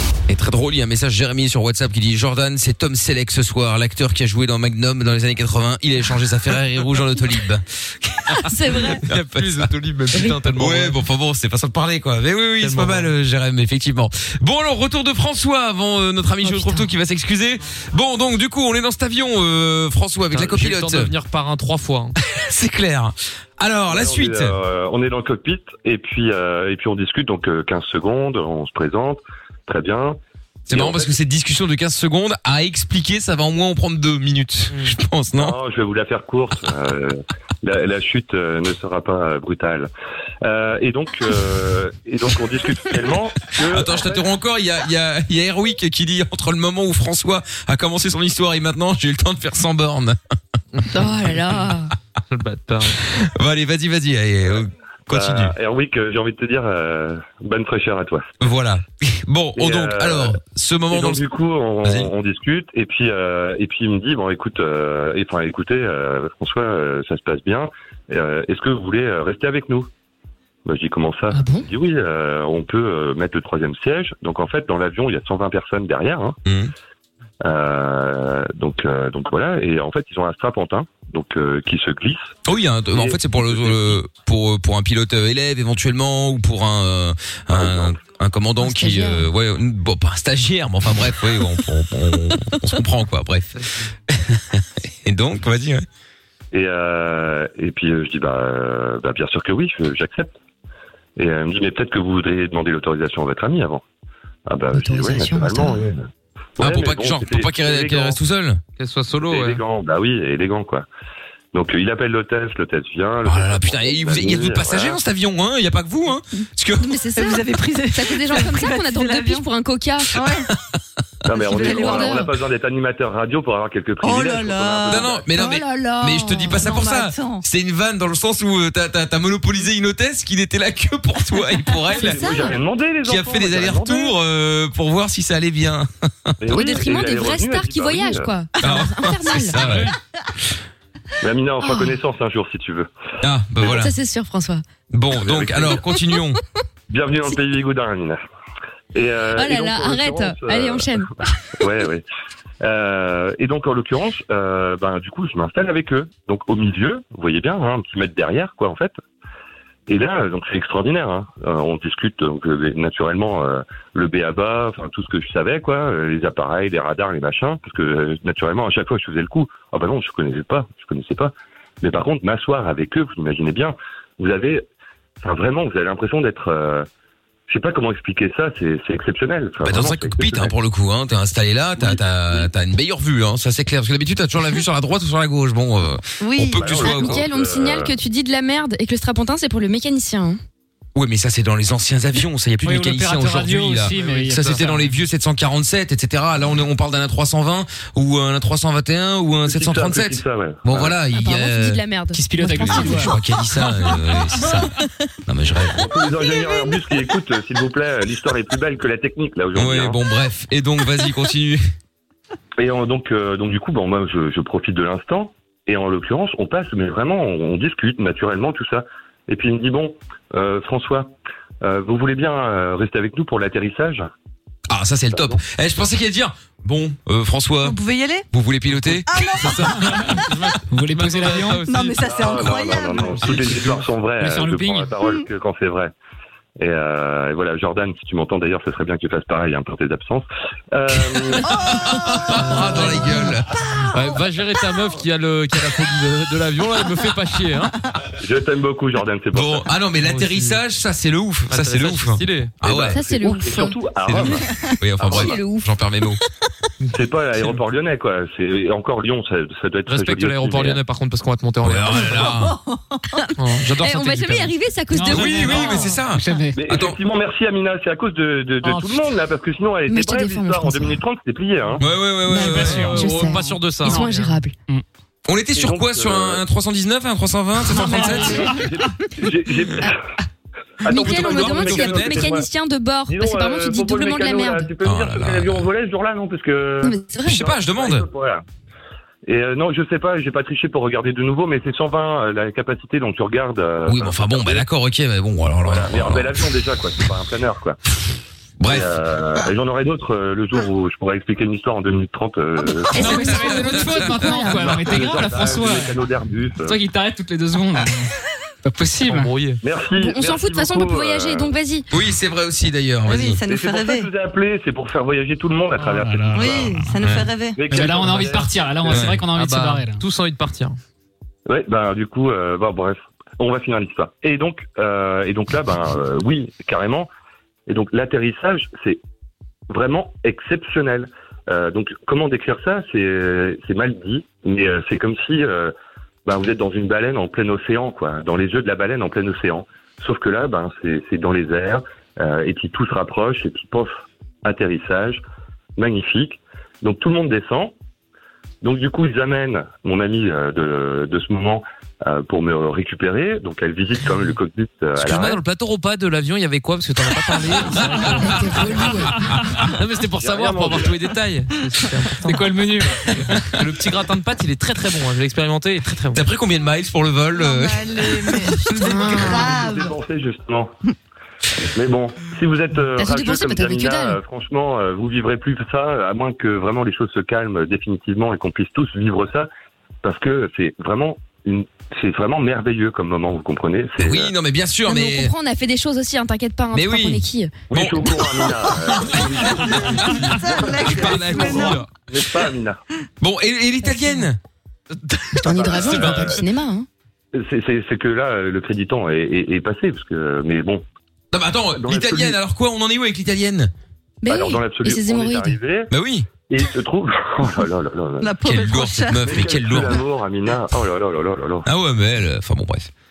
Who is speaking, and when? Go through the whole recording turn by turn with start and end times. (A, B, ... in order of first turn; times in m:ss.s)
0:00.3-0:09.7 A
0:08.5-0:09.0 B
0:09.0-0:11.0 C
0:10.2-0:21.1 A
0:12.6-0:13.1 C
0:16.4-0:16.9 B
0:20.3-0:22.2 C
0:22.2-0:24.6 A
0:23.9-0:30.2 D
0:30.7-0:35.6 A
0:30.7-0:31.2 D
0:34.7-0:35.0 C
0:35.4-0:39.9 D
0:40.4-0:44.3 D
0:43.6-0:50.2 A
0:50.9-0:51.9 B
0:52.3-0:53.0 C
0:53.0-0:55.6 A
0:55.1-0:58.3 D
0:58.4-1:01.2 A
0:59.6-1:00.4 D
1:00.9-1:09.9 D
1:01.8-1:02.1 A
1:10.7-1:16.4 D
1:11.3-1:11.7 B
1:16.4-1:16.7 A
1:17.4-1:22.4 D
1:22.4-1:33.5 A
1:22.9-1:24.0 D
1:27.5-1:28.0 D
1:28.6-1:29.3 B
1:33.6-1:33.9 C
1:34.1-1:35.8 A
1:36.5-1:40.3 D
1:41.2-1:43.8 D
1:44.5-1:48.2 D
1:44.7-1:45.9 B
1:46.6-1:48.6 A
1:48.8-1:49.6 C
1:49.2-1:50.9 D
1:51.5-1:55.0 D
1:53.2-1:56.9 A
1:56.8-2:00.2 B
1:57.1-1:59.5 E
2:00.1-2:00.5 E
2:01.3-2:05.3 D
2:01.4-2:02.3 E
2:01.5-2:02.3 B
2:04.0-2:05.5 E
2:04.9-2:12.5 A
2:05.3-2:06.8 B
2:06.5-2:07.4 E
2:12.0-2:12.6 B
2:12.0-2:14.2 D
2:13.0-2:16.4 A
2:16.4-2:18.3 D
2:16.5-2:19.6 B
2:18.6-2:19.9 A
2:19.6-2:19.9 F
2:21.2-2:22.9 D
2:21.6-2:22.0 B
2:23.2-2:23.9 A
2:23.6-2:24.6 B
2:24.9-2:26.4 A
2:25.2-2:25.8 D
2:26.9-2:28.2 D
2:28.9-2:31.0 D
2:29.4-2:31.3 B
2:31.6-2:32.0 D
2:32.6-2:39.0 D
2:39.9-2:54.6 D
2:55.2-2:56.9 D
2:57.5-3:00.5 D
2:59.6-3:07.2 A
3:01.8-3:02.5 D
3:06.2-3:06.6 E
3:06.6-3:07.9 D
3:06.8-3:10.4 B
3:11.0-3:21.8 A
3:12.6-3:14.9 F
3:13.8-3:14.6 C
3:19.4-3:21.0 D
3:21.1-3:23.2 B
3:22.1-3:23.2 F
3:22.4-3:24.8 A
3:25.3-3:25.8 A
3:25.7-3:30.0 D
3:29.5-3:31.6 A
3:32.6-3:44.1 D
3:44.7-3:47.8 A
3:45.1-3:45.4 D
3:47.6-3:48.3 E
3:48.3-3:49.8 A
3:49.1-3:50.2 E
3:49.4-3:52.3 C
3:49.9-3:51.6 F
3:51.6-3:53.3 E
3:52.0-3:55.9 D
3:53.3-3:53.7 A
3:53.3-3:53.8 C
3:54.2-3:54.9 F
3:56.6-4:01.6 D
4:01.5-4:03.1 E
4:01.5-4:03.5 A
4:03.9-4:07.8 C
4:08.2-4:09.7 D
4:09.3-4:13.0 A
4:10.0-4:10.6 C
4:11.5-4:12.5 C
4:12.6-4:14.5 D
4:12.9-4:14.3 B
4:14.1-4:16.2 A
4:15.0-4:15.7 B
4:15.0-4:15.3 D
4:16.8-4:17.6 C
4:16.9-4:20.8 D
4:19.9-4:22.4 C
4:21.6-4:22.6 A
4:22.2-4:23.2 E
4:23.2-4:25.9 B
4:23.4-4:24.5 C
4:24.9-4:26.6 F
4:25.1-4:27.0 A
4:26.6-4:31.8 D
4:28.6-4:28.9 C
4:29.9-4:31.0 B
4:31.8-4:33.3 A
4:32.3-4:34.5 B
4:32.3-4:34.1 C
4:32.4-4:34.8 F
4:35.3-4:38.5 A
4:35.6-4:36.4 D
4:37.8-4:38.4 F
4:38.3-4:40.0 D
4:40.8-4:42.5 D
4:40.9-4:44.7 B
4:40.9-4:42.4 A
4:43.1-4:48.4 D
4:44.8-4:45.7 A
4:46.8-4:47.4 B
4:47.3-4:48.1 A
4:49.3-4:54.6 D
4:53.9-4:56.4 A
4:55.6-4:57.8 D
4:58.6-4:58.9 A
4:58.6-5:03.7 D
5:03.0-5:05.9 F
5:03.0-5:03.6 B
5:03.1-5:04.1 A
5:04.4-5:06.8 D
5:06.7-5:08.1 F
5:08.6-5:09.3 F
5:09.0-5:09.6 C
5:09.6-5:11.5 D
5:10.0-5:11.9 B
5:11.9-5:13.4 A
5:13.1-5:14.1 E
5:13.5-5:16.8 D
5:15.8-5:17.2 F
5:16.3-5:17.6 E
5:17.0-5:17.3 A
5:17.6-5:19.2 D
5:17.7-5:20.0 F
5:18.9-5:19.2 A
5:19.3-5:20.8 C
5:21.5-5:27.1 D
5:27.7-5:29.0 D
5:29.7-5:35.7 D
5:36.2-5:45.2 D
5:45.8-5:47.7 D
5:48.6-5:55.4 D
5:55.0-5:58.9 C
5:57.9-5:58.6 A
5:58.2-5:59.2 B
5:59.3-5:59.6 A
5:59.7-6:02.5 C
6:00.2-6:00.9 D
6:02.2-6:03.5 F
6:03.4-6:06.2 C
6:06.1-6:08.6 A
6:07.4-6:10.0 E
6:08.8-6:09.5 B
6:09.0-6:10.8 D
6:11.7-6:19.5 D
6:13.0-6:14.2 B
6:20.0-6:24.3 D
6:24.0-6:25.3 A
6:24.9-6:27.5 B
6:26.7-6:28.2 A
6:27.7-6:32.8 D
6:29.7-6:31.8 E
6:30.8-6:31.9 C
6:33.2-6:34.4 A
6:35.1-6:36.4 C
6:35.4-6:36.9 B
6:35.6-6:36.4 D
6:35.8-6:36.3 A
6:37.3-6:40.8 D
6:41.3-6:43.7 A
6:41.8-6:42.4 D
6:44.2-6:45.6 B
6:44.3-6:45.9 D
6:45.9-6:46.3 A
6:46.5-6:48.3 D
6:48.2-6:49.8 E
6:48.4-6:50.0 A
6:49.2-6:51.7 D
6:51.6-6:52.9 A